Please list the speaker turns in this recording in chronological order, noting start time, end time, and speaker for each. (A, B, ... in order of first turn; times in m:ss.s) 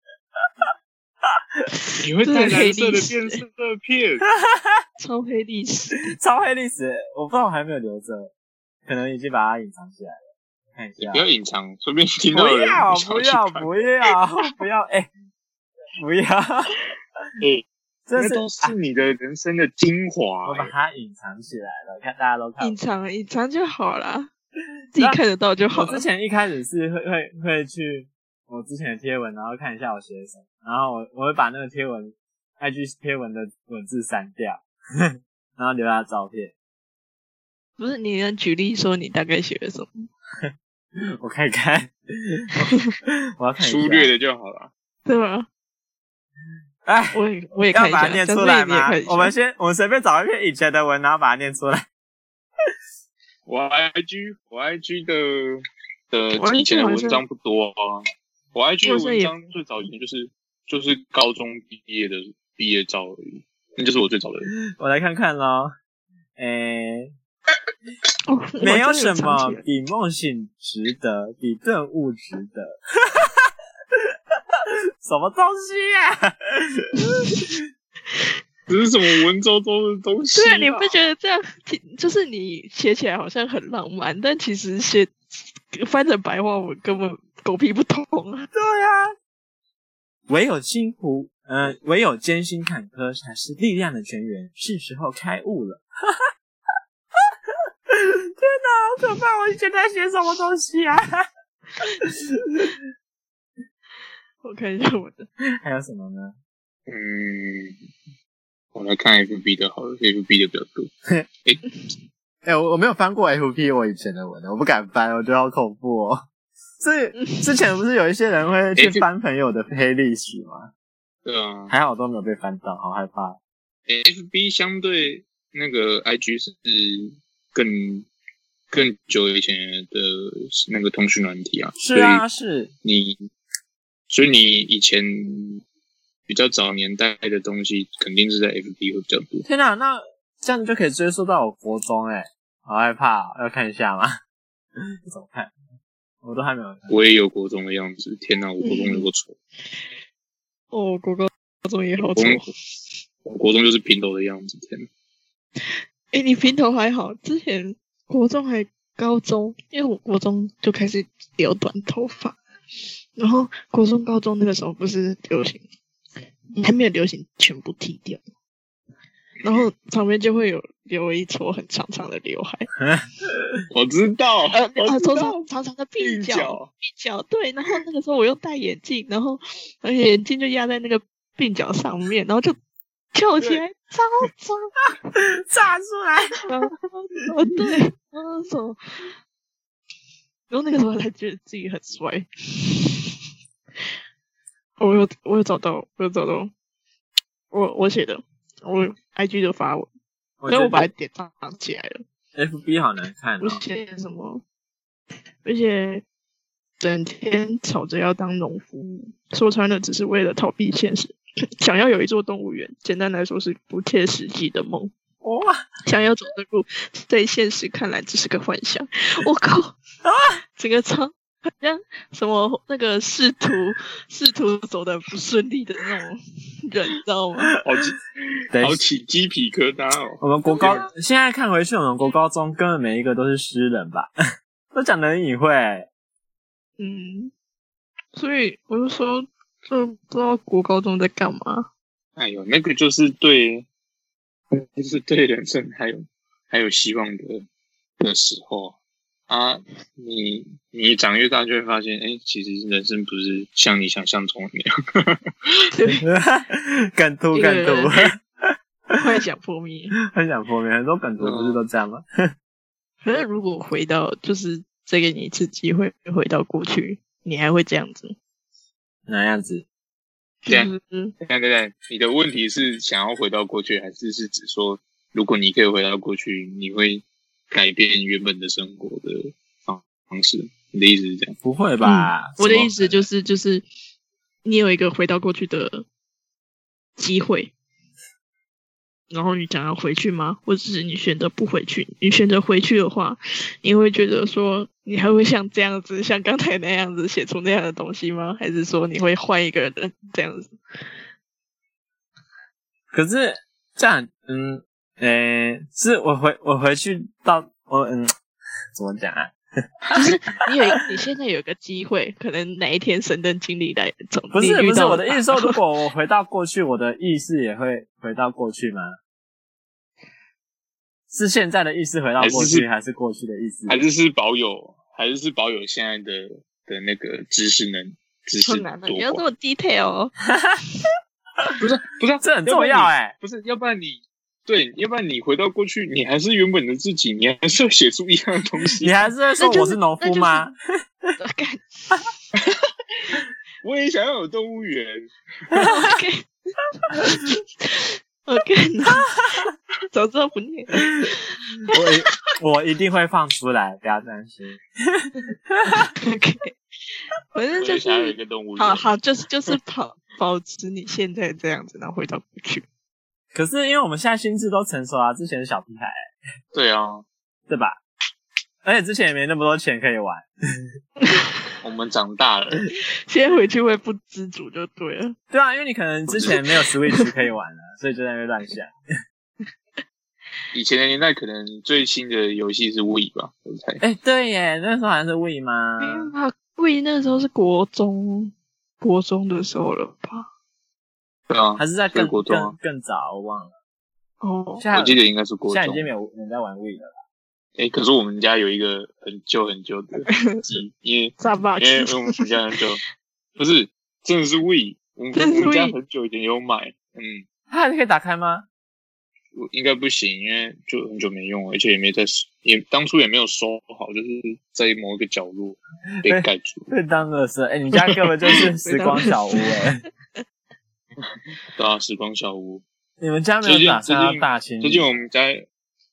0:01.2-0:01.6 A
0:02.0-0:04.2 B
0:02.2-0:03.4 C
0:04.2-0:04.8 A
0:05.0-0:06.1 C
0:06.0-0:08.3 A
0:08.8-0:10.2 A
0:10.7-0:11.2 A
0:11.0-0:13.8 B
0:12.3-0:15.1 A
0:16.0-0:16.8 A
0:17.4-0:20.7 B
0:18.1-0:18.7 A
0:20.4-0:22.8 A
0:22.6-0:24.3 C
0:24.9-0:26.0 C
0:25.7-0:36.5 A
0:37.8-0:40.1 C
0:41.2-0:44.1 A
0:43.6-0:44.7 B
0:45.0-0:45.5 C
0:46.8-0:51.8 A
0:47.1-0:49.3 C
0:53.4-1:04.5 B
0:56.4-0:57.2 C
0:58.8-0:59.4 C
1:04.7-1:05.7 A
1:06.4-1:07.1 A
1:08.3-1:09.6 C
1:08.6-1:17.6 A
1:18.7-1:20.9 B
1:20.3-1:28.5 C
1:28.5-1:29.1 A
1:30.3-1:36.2 A
1:37.9-1:41.2 A
1:42.0-1:42.7 A
1:44.4-1:45.3 C
1:45.6-1:46.3 A
1:46.9-1:47.8 B
1:48.7-1:50.9 B
1:52.4-1:56.2 A
1:56.8-2:00.7 A
1:57.2-1:57.5 C
1:58.8-1:59.0 B
2:01.2-2:01.7 B
2:01.7-2:03.4 A
2:03.9-2:08.1 B
2:08.7-2:12.2 B
2:11.8-2:12.7 A
2:12.8-2:13.2 B
2:14.1-2:15.6 B
2:16.3-2:19.4 B
2:19.4-2:24.2 A
2:25.0-2:25.5 A
2:26.2-2:26.9 A
2:26.9-2:29.4 B
2:28.6-2:29.1 C
2:30.7-2:32.5 C
2:32.0-2:32.4 B
2:33.2-2:34.9 B
2:35.6-2:42.4 C
2:43.2-2:45.6 C
2:46.5-2:48.2 C
2:49.4-2:49.7 B
2:49.4-2:52.7 C
2:52.8-2:53.6 A
2:53.7-2:55.4 B
2:54.5-3:02.6 C
2:56.0-2:56.7 B
3:03.1-3:04.7 C
3:05.2-3:06.4 A
3:06.5-3:08.8 C
3:10.5-3:13.2 C
3:14.8-3:16.5 C
3:17.5-3:19.9 C
3:20.4-3:20.9 A
3:20.5-3:22.0 C
3:22.3-3:23.6 A
3:23.4-3:24.4 C
3:25.4-3:26.0 C
3:26.8-3:34.9 C
3:35.2-3:35.6 A
3:35.8-3:39.8 C
3:40.0-3:40.4 A
3:40.6-3:47.5 C
3:47.6-3:48.0 B
3:48.5-3:48.8 A
3:48.6-3:50.8 B
3:50.2-3:54.1 A
3:50.5-3:50.9 C
3:54.7-3:55.9 A
3:56.8-3:57.3 C
3:58.1-4:01.7 C
4:02.2-4:03.6 B
4:04.5-4:07.4 B
4:08.0-4:08.8 B
4:09.3-4:15.2 B
4:15.7-4:16.0 C
4:16.0-4:18.9 A
4:17.3-4:18.1 C
4:19.0-4:20.0 C
4:20.0-4:22.0 A
4:21.2-4:21.6 B
4:23.0-4:28.1 C
4:29.1-4:29.6 A
4:30.4-4:31.1 C
4:30.5-4:41.4 B
4:41.4-4:43.1 A
4:41.8-4:43.6 C
4:44.4-4:45.8 C
4:47.0-4:47.5 C
4:49.1-5:00.5 C
5:02.9-5:08.1 A
5:08.7-5:09.3 A
5:09.9-5:15.6 C
5:14.3-5:18.9 A
5:21.1-5:23.8 A
5:22.2-5:22.7 B
5:23.7-5:29.2 B
5:28.4-5:30.1 C
5:30.3-5:30.6 A
5:31.6-5:39.0 B
5:32.2-5:33.1 A
5:38.8-5:41.1 A
5:39.4-5:40.4 C
5:41.2-5:41.9 C
5:43.6-5:45.1 B
5:45.5-5:45.8 A
5:45.6-5:46.3 C
5:47.0-5:49.1 C
5:49.1-5:49.5 A
5:49.9-5:51.8 C
5:51.7-5:55.9 A
5:56.0-5:56.5 C
5:57.3-6:02.6 C
5:57.6-5:58.9 B
6:03.3-6:06.0 A
6:06.5-6:07.0 B
6:07.5-6:07.8 A
6:08.6-6:10.2 A
6:11.0-6:11.4 C
6:11.6-6:12.7 B
6:13.1-6:15.2 C
6:15.3-6:18.7 A
6:16.1-6:16.3 B
6:16.3-6:17.1 C
6:20.5-6:23.8 B
6:23.8-6:26.1 A
6:25.8-6:30.3 C
6:31.3-6:32.5 B
6:31.6-6:33.5 A
6:34.2-6:34.6 C
6:34.6-6:37.0 A
6:34.7-6:35.9 B
6:37.6-6:42.8 B
6:40.1-6:40.4 C
6:41.2-6:42.3 C
6:43.4-6:47.2 B
6:45.2-6:45.7 C
6:47.5-6:48.4 A
6:49.4-6:56.7 B
6:56.0-6:59.8 A
6:58.4-6:59.6 C
7:01.0-7:02.6 B
7:03.0-7:04.9 A
7:03.4-7:05.4 B